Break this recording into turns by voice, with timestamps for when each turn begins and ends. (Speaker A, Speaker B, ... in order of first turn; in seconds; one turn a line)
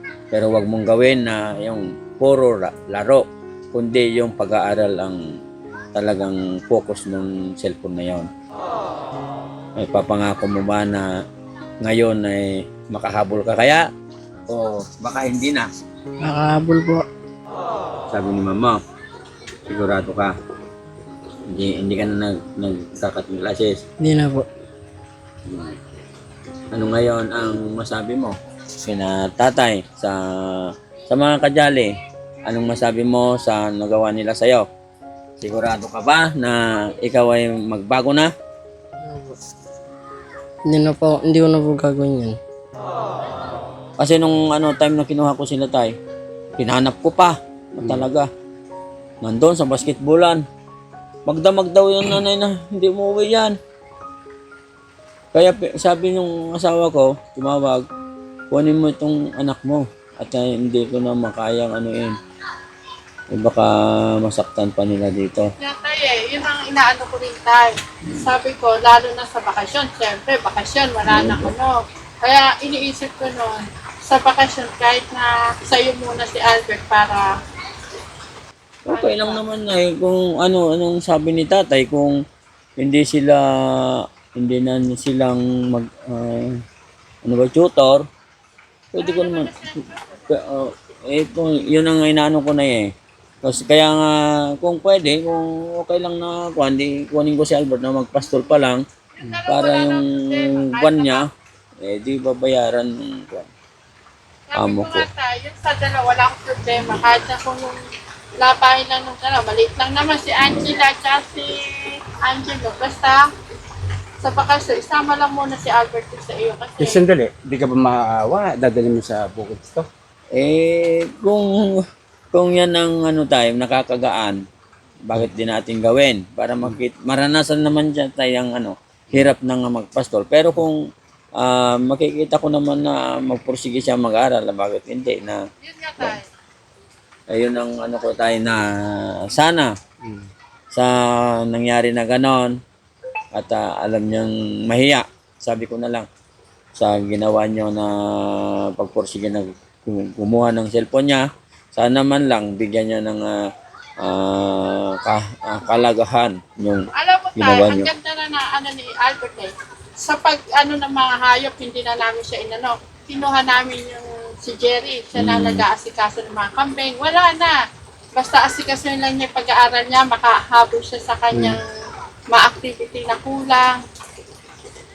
Speaker A: 0.3-5.2
Speaker A: 6.0-8.3
Speaker A: 9.8-11.1
Speaker A: 11.8-13.9
Speaker A: 14.5-15.7
Speaker B: 16.2-17.1
Speaker A: 18.1-18.8
Speaker A: 19.7-20.3
Speaker A: 21.5-23.8
Speaker B: 24.0-24.5
Speaker A: 25.5-25.8
Speaker A: 26.7-31.9
Speaker A: 32.5-34.7
Speaker A: 35.4-38.3
Speaker B: 39.0-39.4
Speaker B: 40.6-42.4
Speaker A: 44.0-46.0
Speaker A: 46.6-48.3
Speaker A: 49.2-50.4
Speaker A: 51.3-53.6
Speaker A: 55.3-57.8
Speaker A: 58.5-62.2
Speaker A: 63.3-65.5
Speaker C: 65.6-77.3
Speaker A: 71.1-71.5
Speaker A: 78.9-82.2
Speaker C: 78.9-79.4
Speaker A: 82.8-86.6
Speaker A: 87.2-88.0
Speaker A: 88.9-98.8
Speaker C: 89.0-90.1
Speaker C: 99.2-101.3
Speaker A: 99.5-101.3
Speaker A: 101.8-103.5
Speaker C: 104.5-107.8
Speaker A: 104.5-105.1
Speaker C: 108.4-113.2
Speaker C: 114.2-117.0
Speaker D: 116.8-119.9
Speaker A: 120.3-124.4
Speaker A: 125.0-130.8
Speaker A: 131.4-135.4
Speaker C: 135.6-136.3
Speaker A: 137.3-139.7
Speaker A: 140.7-142.6
Speaker A: 143.3-146.1
Speaker A: 146.8-153.3
Speaker A: 154.0-157.9
Speaker C: 156.9-167.6
Speaker A: 165.2-165.7
Speaker C: 168.2-171.6
Speaker D: 171.3-171.6
Speaker C: 172.3-173.8